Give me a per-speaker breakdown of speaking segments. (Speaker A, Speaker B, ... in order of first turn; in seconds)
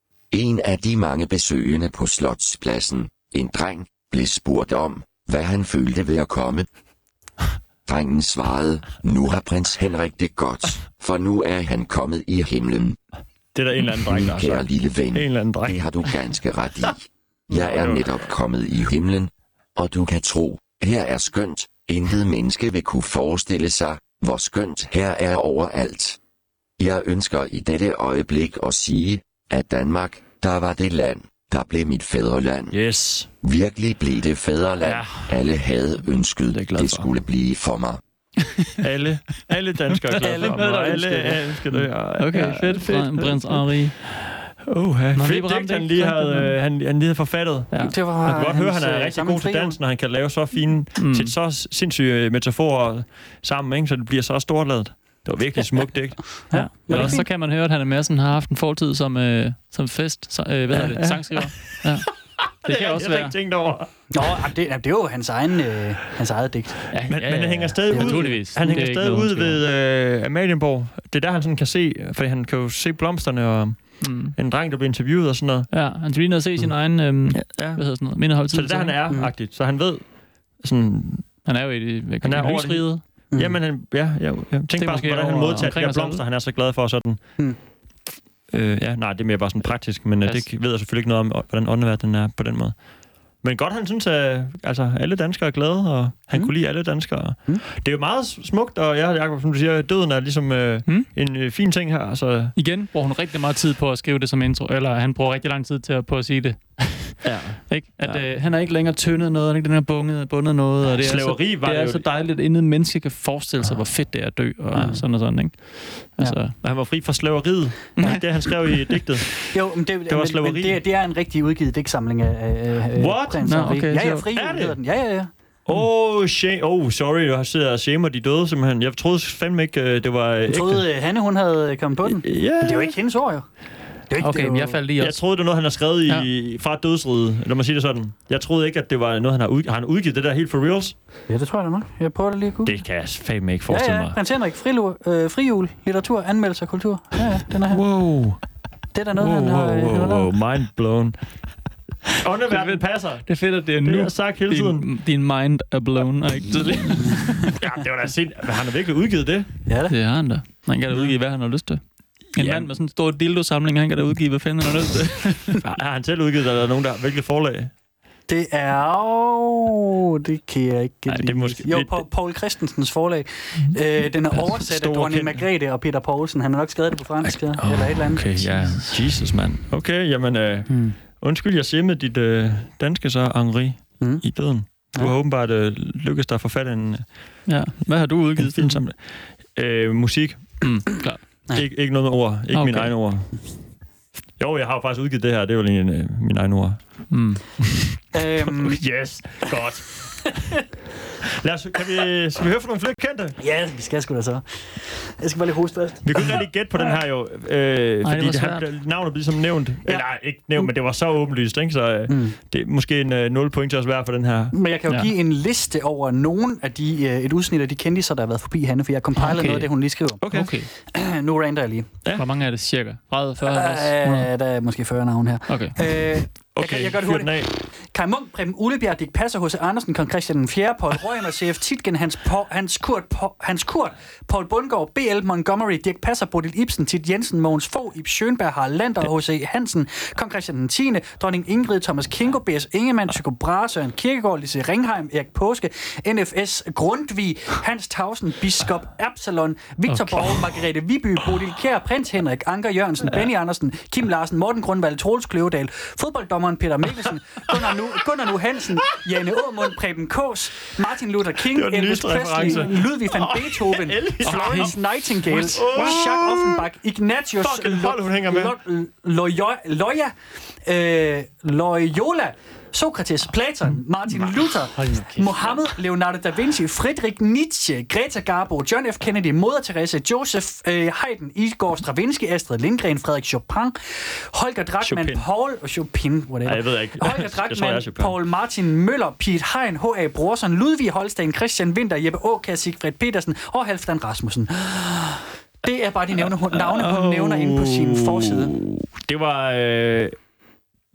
Speaker A: 0.3-6.7, 7.8-13.0, 14.1-26.2, 26.8-32.8, 33.4-38.0
Speaker B: 13.5-16.1, 17.5-18.3, 32.7-33.3, 34.8-35.3, 36.5-37.1, 38.8-43.7, 44.6-57.2, 60.7-62.1, 62.6-64.2, 67.1-75.7, 77.3-81.5, 82.2-87.2, 88.5-92.8, 93.4-102.5, 107.2-108.2, 111.0-112.0, 116.6-119.5, 120.1-120.8, 122.9-123.6, 124.3-124.8, 125.7-130.8, 132.0-132.9, 135.0-140.9, 142.6-144.2, 147.7-148.4, 149.2-151.1, 152.2-154.8, 157.5-159.5, 162.4-162.7, 165.6-167.7, 171.1-172.0, 174.4-175.4, 177.7-187.1, 188.4-191.0, 191.5-193.3, 194.4-197.1, 198.5-200.4, 201.4-203.4, 206.0-214.6, 220.2-220.5, 226.5-227.5, 261.4-264.7, 265.3-266.7, 267.4-268.6, 284.8-285.2, 286.4-288.1, 296.5-300.1
Speaker C: 40.2-41.1, 41.7-44.0, 45.1-46.5, 51.0-51.3, 56.5-62.1, 62.6-63.4, 66.9-69.6, 74.0-74.3, 75.7-78.9, 81.5-83.0, 84.7-86.2, 102.5-116.5, 118.0-118.3, 123.4-124.3, 134.2-135.2, 152.5-157.5, 159.9-161.8, 162.3-165.6, 177.6-179.0, 187.5-188.8, 190.6-191.2, 192.5-192.9, 197.1-197.4, 208.0-208.6, 219.2-219.7, 220.2-220.7, 222.1-224.3, 225.5-225.8, 249.9-250.4, 264.2-264.7, 265.3-265.6, 274.8-275.6
Speaker D: 40.2-41.4, 47.8-49.8, 56.5-57.2, 64.1-66.9, 67.9-68.4, 83.3-83.6, 114.7-115.0, 119.5-125.3, 130.5-133.4, 134.1-134.8, 141.3-142.7, 143.7-147.8, 148.9-150.3, 159.7-159.9, 168.3-178.3, 198.1-198.8, 200.2-200.6, 203.4-206.4, 209.8-210.7, 212.1-212.4, 214.5-220.2, 220.8-221.9, 223.4-298.5